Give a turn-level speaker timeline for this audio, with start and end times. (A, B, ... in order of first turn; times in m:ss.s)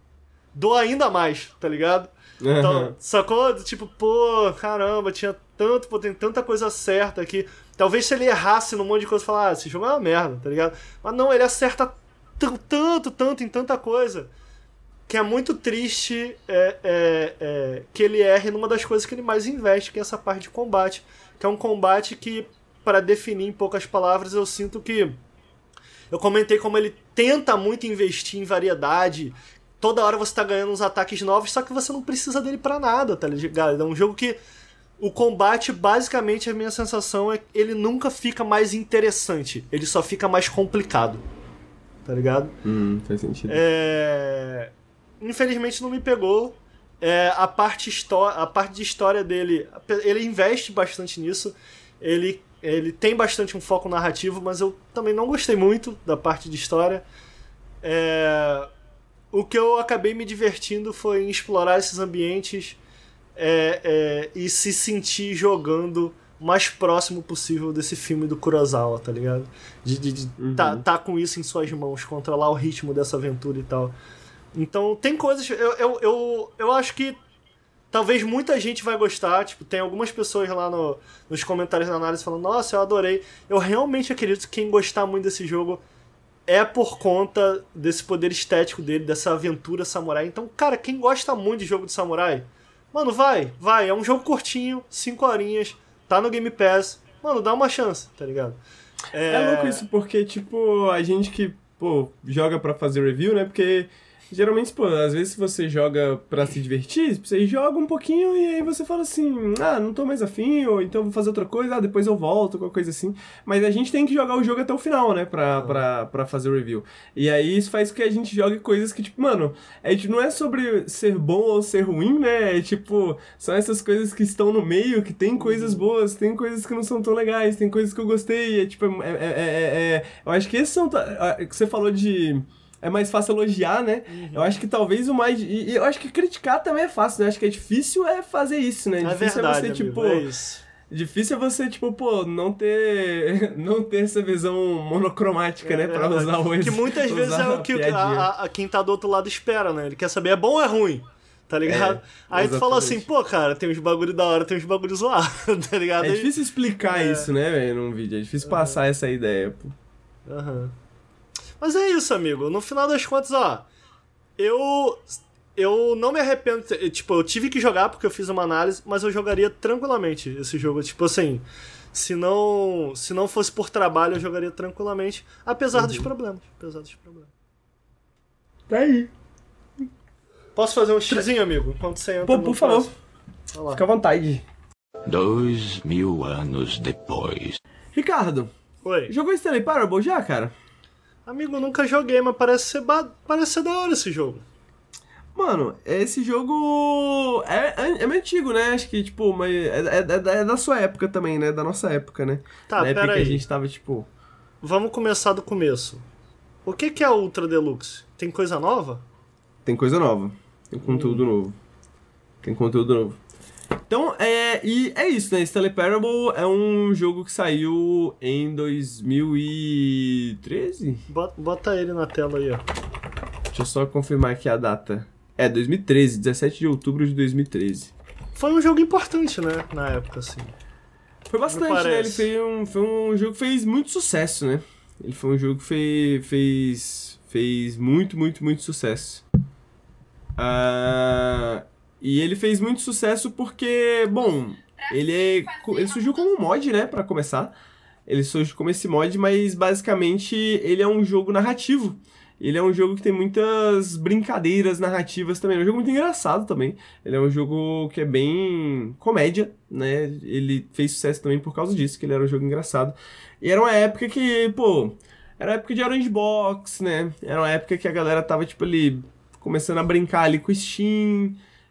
0:00.5-0:14.3 A
0:02.4-0:02.9 B
0:15.1-0:25.2 A
0:26.1-0:34.4 A
0:35.0-0:41.2 A
0:42.0-0:42.5 A
0:42.6-0:43.6 B
0:43.5-0:57.0 A
0:57.8-0:58.7 A
0:59.3-1:02.8 A
1:03.4-1:13.9 A
1:10.4-1:10.8 B
1:14.5-1:17.2 A
1:17.9-1:25.8 A
1:26.5-1:38.6 A
1:39.1-1:39.8 A
1:39.3-2:20.2 B
1:55.5-1:55.8 A
2:05.4-2:05.8 A
2:14.1-2:14.6 A
2:19.0-2:20.6 A
2:20.9-2:28.3 B
2:25.6-2:36.3 A
2:31.6-2:33.1 B
2:36.0-2:39.7 B
2:36.8-2:37.3 A
2:38.4-2:38.8 A
2:40.3-2:40.7 A
2:41.6-2:43.7 A
2:44.4-2:57.3 A
2:55.7-2:56.1 B
2:58.7-2:59.1 B
3:00.6-3:02.9 A
3:02.2-3:02.9 B
3:03.5-3:03.8 A
3:03.7-3:04.4 B
3:05.1-3:07.6 C
3:07.9-3:08.5 B
3:08.8-3:09.1 A
3:09.1-3:10.5 B
3:11.2-3:14.4 A
3:15.3-3:24.1 B
3:22.7-3:23.4 A
3:24.6-3:26.0 A
3:26.6-3:29.0 A
3:29.6-3:31.6 B
3:30.8-3:31.3 A
3:32.4-3:33.2 B
3:33.9-3:41.0 B
3:41.1-3:42.6 A
3:43.5-3:47.9 B
3:48.3-3:50.5 A
3:51.3-3:59.2 B
3:51.5-3:52.3 A
4:00.4-4:07.5 B
4:08.1-4:31.4 B